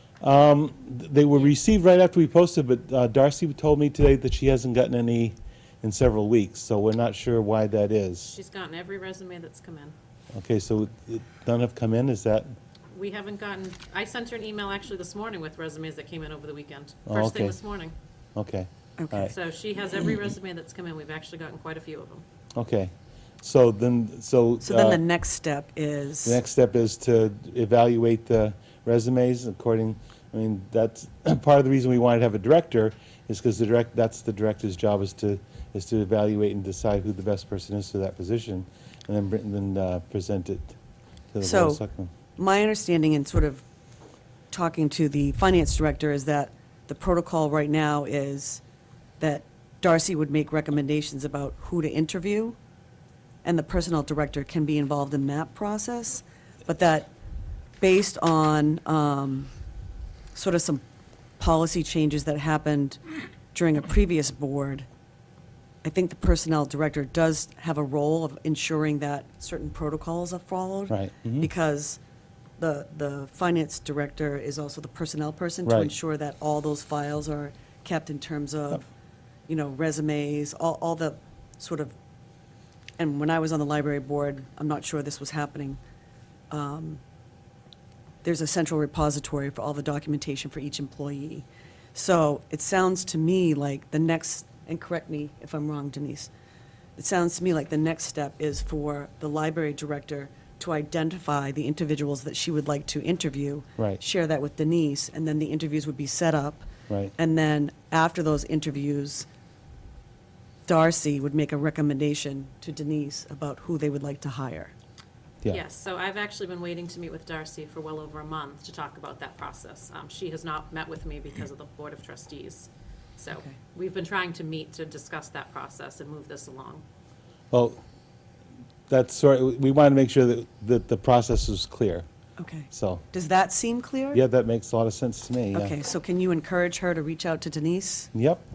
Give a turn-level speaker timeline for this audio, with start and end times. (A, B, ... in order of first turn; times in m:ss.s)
0:00.2-0:08.3 A
0:08.3-0:10.0 B
0:10.3-0:12.6 A
0:12.9-0:17.9 B
0:17.1-0:17.6 A
0:18.4-0:19.3 A
0:19.0-0:19.3 C
0:19.3-0:22.2 B
0:22.6-0:25.0 A
0:24.6-0:26.4 C
0:26.2-0:40.8 A
0:41.3-0:42.1 A
0:41.4-0:41.8 C
0:42.4-0:43.6 C
0:44.5-0:48.6 C
0:49.2-0:52.6 C
0:53.4-0:57.1 C
0:57.8-0:59.5 C
1:00.3-1:00.8 C
1:01.4-1:03.0 C
1:03.5-1:04.9 C
1:05.8-1:12.0 C
1:10.9-1:11.5 A
1:12.6-1:18.9 C
1:15.7-1:15.9 A
1:19.5-1:21.9 C
1:23.0-1:25.8 C
1:26.5-1:27.0 C
1:28.2-1:36.3 C
1:37.0-1:49.3 C
1:50.7-1:54.7 C
1:55.5-2:06.8 B
2:07.5-2:07.8 A
2:08.9-2:12.1 A
2:12.4-2:14.2 C
2:12.7-2:13.0 A
2:14.1-2:15.8 A
2:15.5-2:18.1 C
2:18.1-2:18.4 A